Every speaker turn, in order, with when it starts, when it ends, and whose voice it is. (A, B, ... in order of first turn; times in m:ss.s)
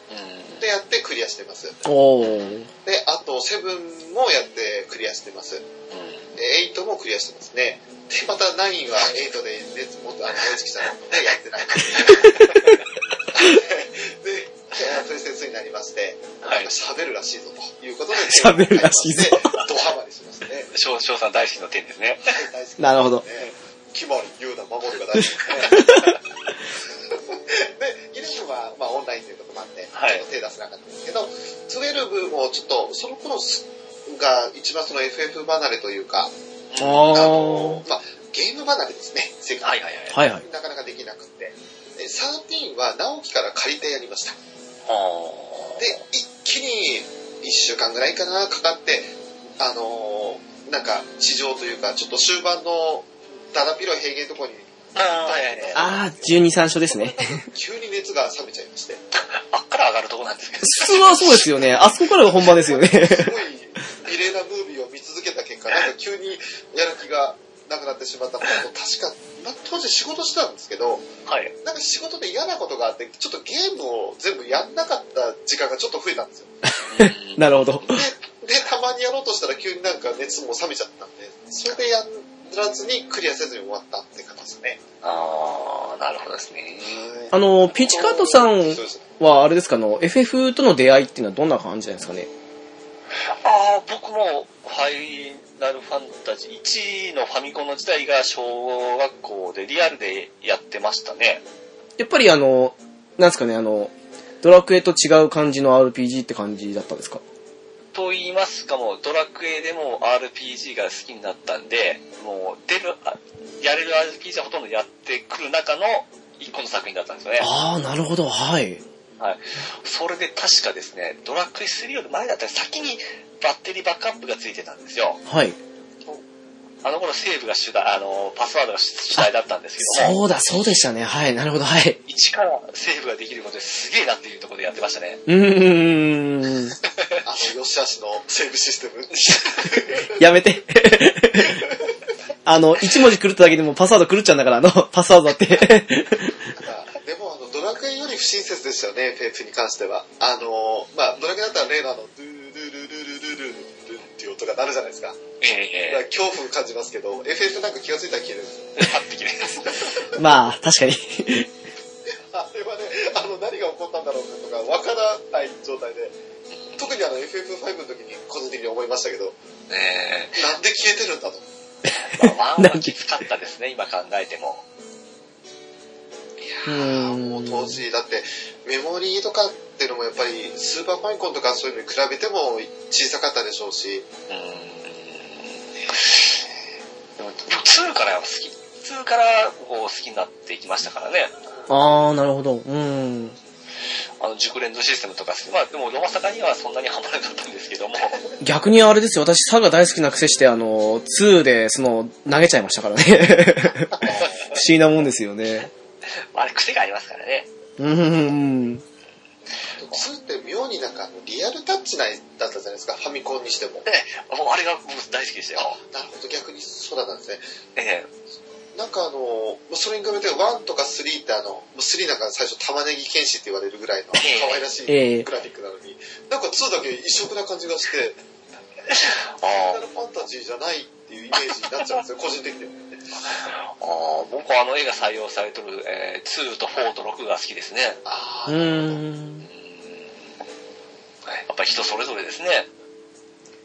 0:00.1-0:00.7 A
0:00.6-0:01.8 B
0:01.8-0:02.7 C
0:02.8-0:05.6 B
0:05.9-0:06.3 A
0:06.4-0:12.5 B
0:11.8-0:12.8 A
0:12.4-0:12.7 C
0:13.3-0:20.7 B
0:16.4-0:16.7 A
0:18.1-0:19.6 C
0:20.7-0:22.4 A
0:22.3-0:26.1 B
0:22.8-0:23.2 C
0:25.7-0:26.2 C
0:27.1-0:36.3 B
0:29.9-0:30.2 A
0:36.7-0:37.4 A
0:36.8-0:37.8 C
0:37.1-0:39.8 B
0:39.6-0:40.2 A
0:40.1-0:40.4 C
0:40.4-0:44.4 B
0:44.9-0:45.9 A
0:45.8-0:54.7 B
0:55.0-0:55.9 A
0:55.2-0:59.0 B
0:55.8-0:57.5 C
0:59.2-1:01.6 A
1:00.6-1:03.4 C
1:02.3-1:11.1 B
1:11.3-1:11.5 A
1:11.6-1:16.5 B
1:16.9-1:18.0 A
1:17.0-1:18.0 C
1:17.9-1:24.8 B
1:25.0-1:27.0 A
1:26.8-1:29.1 B
1:27.3-1:32.3 C
1:33.3-1:41.4 A
1:42.0-1:47.2 C
1:47.9-1:57.5 A
1:57.4-1:58.8 C
1:59.2-2:05.2 A
2:05.3-2:05.6 C
2:06.8-2:10.2 A
2:09.8-2:12.0 C
2:12.1-2:15.2 A
2:15.3-2:16.8 C
2:17.2-2:20.2 B
2:20.0-2:21.6 C
2:21.5-2:21.8 B
2:22.4-2:26.5 C
2:26.6-2:35.2 B
2:35.4-2:36.0 A
2:35.9-2:38.9 B
2:38.8-2:40.0 A
2:39.7-2:40.2 B
2:40.1-2:41.5 C
2:42.3-2:46.1 B
2:46.8-2:49.4 B
2:49.7-2:50.4 A
2:50.4-2:51.4 B
2:52.0-2:54.6 A
2:52.2-2:53.0 C
2:56.5-3:04.1 B
2:56.7-2:57.8 C
3:04.3-3:06.4 A
3:07.2-3:11.4 A
3:11.7-3:13.4 C
3:14.2-3:18.3 A
3:18.4-3:25.7 C
3:24.0-3:24.3 B
3:24.1-3:24.5 A
3:26.3-3:27.5 A
3:27.8-3:28.8 C
3:29.8-3:33.8 B
3:33.9-3:35.8 A
3:35.6-3:37.4 B
3:37.8-3:38.1 A
3:38.8-3:48.2 B
3:44.2-3:44.7 A
3:44.9-3:45.3 C
3:48.9-3:49.8 A
3:49.5-3:52.8 B
3:53.7-3:58.0 A
3:58.0-3:59.0 B
3:58.5-3:59.5 C
3:59.5-4:00.1 A
4:01.3-4:02.7 A